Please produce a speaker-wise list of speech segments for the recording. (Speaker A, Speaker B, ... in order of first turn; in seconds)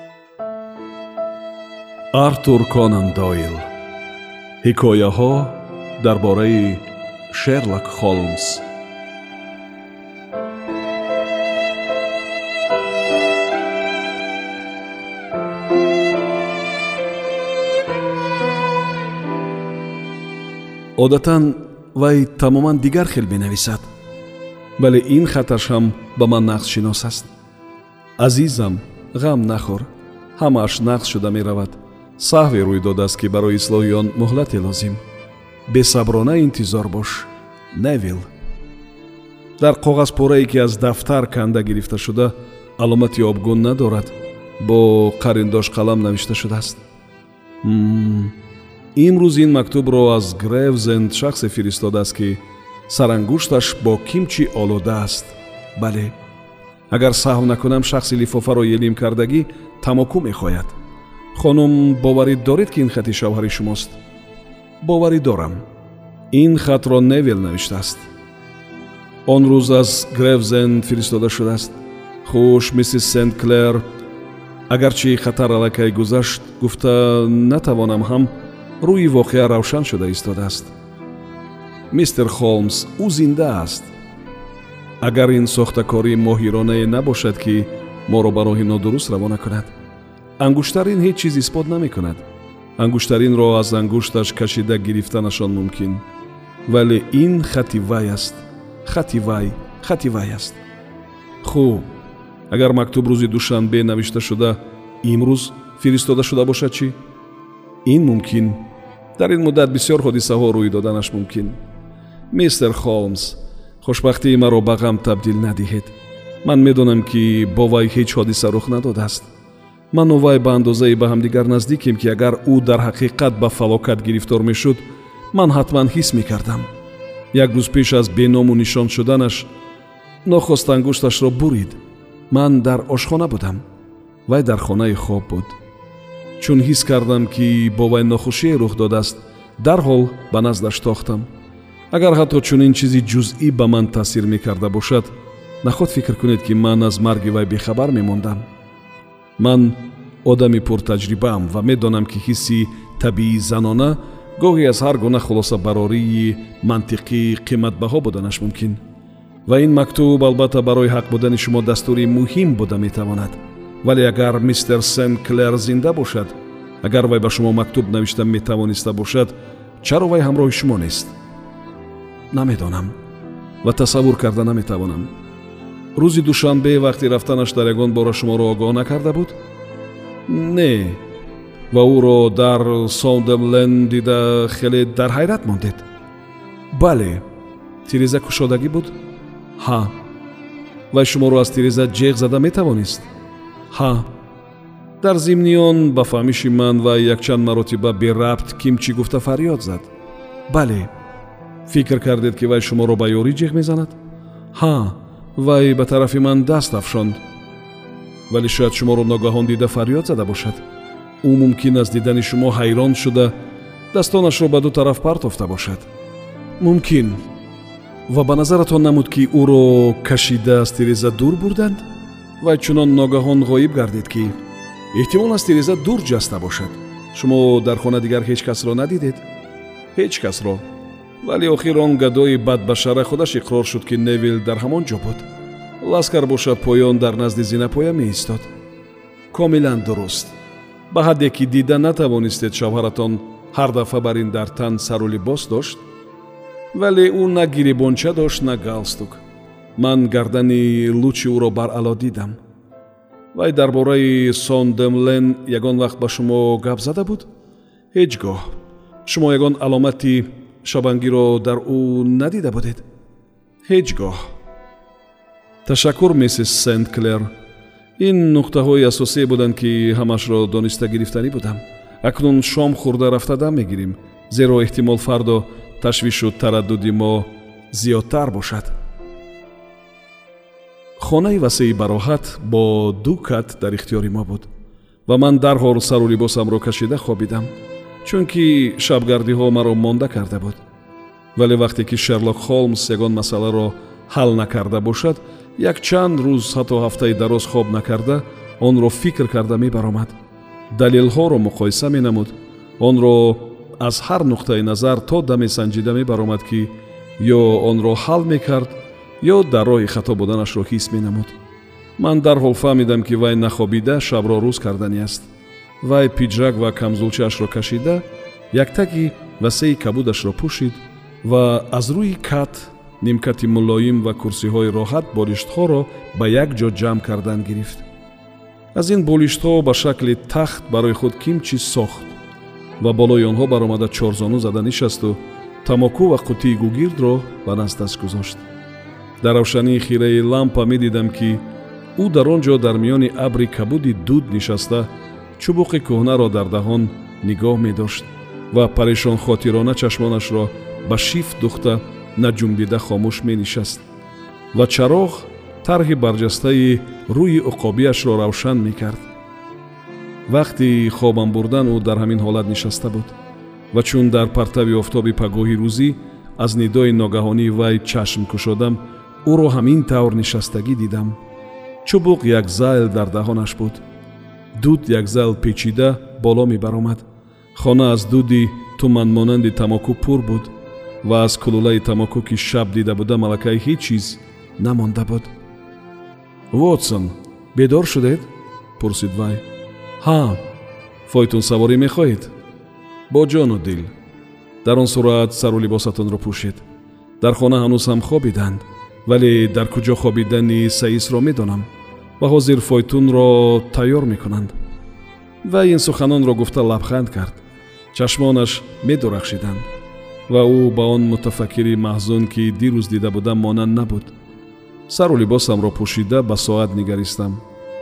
Speaker A: 2.1-3.7, 4.6-8.6, 21.0-23.8, 24.8-27.3, 28.2-35.0, 35.7-38.3, 39.6-46.8, 47.6-48.4, 48.9-56.1, 56.9-60.7, 61.3-64.0, 64.8-65.6, 66.3-68.1, 69.2-73.8, 74.7-80.7, 81.9-83.9, 85.0-89.7, 90.4-92.2, 92.8-96.0, 96.7-100.6, 101.4-101.9, 102.5-107.0, 107.8-111.6, 112.3-119.3, 119.9-126.7, 127.3-129.5, 130.2-131.8, 132.3-133.6, 134.3-135.6, 136.4-141.3, 141.9-148.5, 149.4-158.8, 159.4-171.1, 172.3-172.9, 173.6-175.1, 175.9-179.4, 180.3-181.0, 181.7-185.8, 186.7-187.2, 187.8-188.9, 189.6-190.0, 190.9-193.1, 193.7-194.1, 195.0-199.9, 200.5-200.9, 201.7-204.0, 204.5-207.2, 208.3-210.6, 211.2-213.3, 213.9-215.9, 216.6-217.3, 218.1-221.8, 222.4-224.4, 224.9-229.2, 229.9-230.6, 231.2-235.3, 235.8-238.5, 239.3-240.3, 240.9-245.8, 246.7-249.2, 249.8-252.4, 253.3-257.3, 257.9-262.8, 263.6-264.3, 265.6-267.3, 268.0-278.7, 281.0-284.5, 285.1-287.5, 288.0-290.6, 291.3-300.1, 300.7-311.4, 312.0-315.3, 315.8-327.8, 328.7-332.1, 332.8-338.4, 339.2-353.8, 354.5-359.1, 360.3-363.1, 363.7-371.2, 371.8-373.8, 374.5-385.3, 386.5-389.4, 390.0-390.4, 391.1-392.3, 393.1-393.9, 394.6-396.6, 397.2-401.7, 402.2-404.5, 405.4-407.4, 407.9-409.6, 410.3-414.1, 414.9-417.4